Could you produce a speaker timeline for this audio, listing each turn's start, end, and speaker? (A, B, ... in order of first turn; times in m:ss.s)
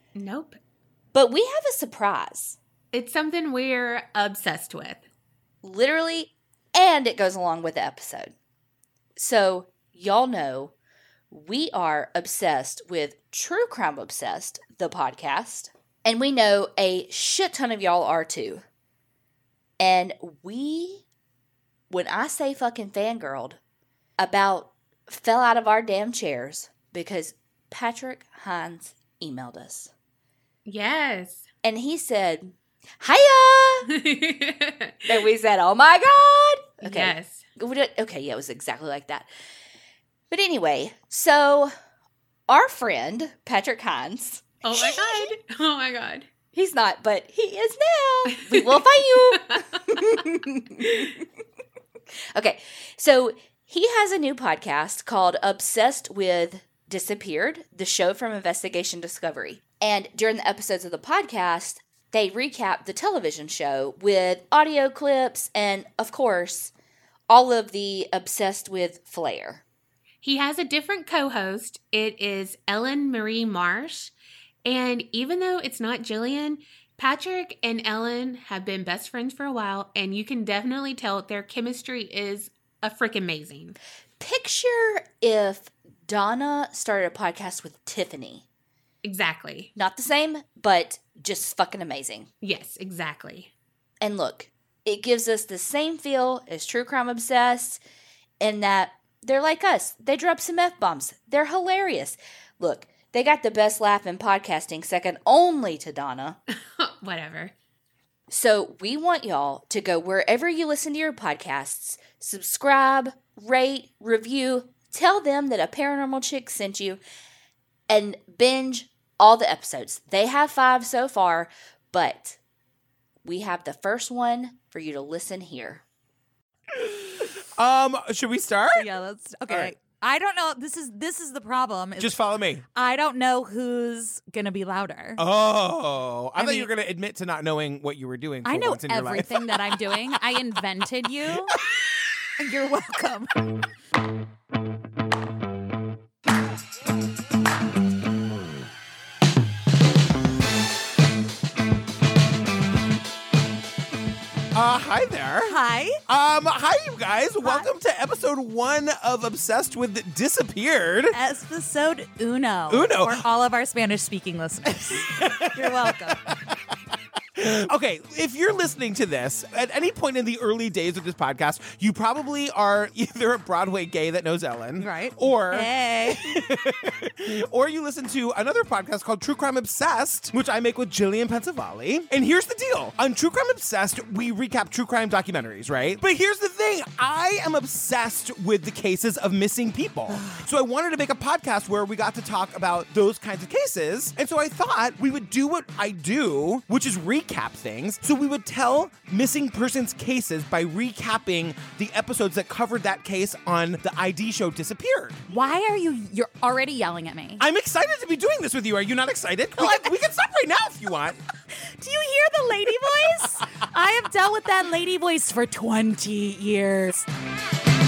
0:00.1-0:00.6 A
0:01.1-0:02.6 B
0:02.9-0:05.0 A
0:05.6-0:08.3 B
0:09.2-0:10.7 B
0:11.3-0:18.6 B
0:19.8-0:21.0 B
0:21.9-0:23.6 B
0:24.2-0:29.9 B
0:30.6-0:31.4 A
0:31.6-0:33.8 B
0:33.9-0:35.2 A
0:35.0-0:39.3 B
0:36.8-0:37.4 A
0:40.3-0:41.7 B
0:42.5-0:45.3 B
0:44.6-0:46.3 A
0:46.5-0:50.8 B
0:48.4-0:49.5 A
0:52.3-1:06.7 B
1:07.3-1:09.6 B
1:10.2-1:14.1 A
1:14.6-1:23.8 A
1:24.2-1:28.4 B
1:29.0-1:29.7 A
1:29.7-1:32.3 B
1:32.4-1:33.5 A
1:34.0-1:37.8 B
1:38.4-1:46.4 B
1:46.8-1:47.5 A
1:48.3-1:57.0 B
1:57.9-2:02.4 B
2:03.2-2:05.8 B
2:06.8-2:08.9 C
2:08.7-2:12.1 D
2:09.5-2:09.7 C
2:12.0-2:12.6 C
2:12.7-2:15.2 D
2:15.2-2:19.4 C
2:16.4-2:16.7 D
2:18.4-2:21.5 D
2:22.4-2:23.3 D
2:34.5-2:41.2 C
2:35.4-2:36.0 D
2:37.4-2:37.7 D
2:41.1-2:46.2 D
2:42.7-2:43.2 C
2:45.0-2:46.1 C
2:47.4-3:25.2 C
2:54.8-2:56.4 D
3:10.1-3:10.4 D
3:25.3-3:27.4 D
3:27.4-3:31.2 C
3:29.6-3:29.9 D
3:31.6-3:37.0 D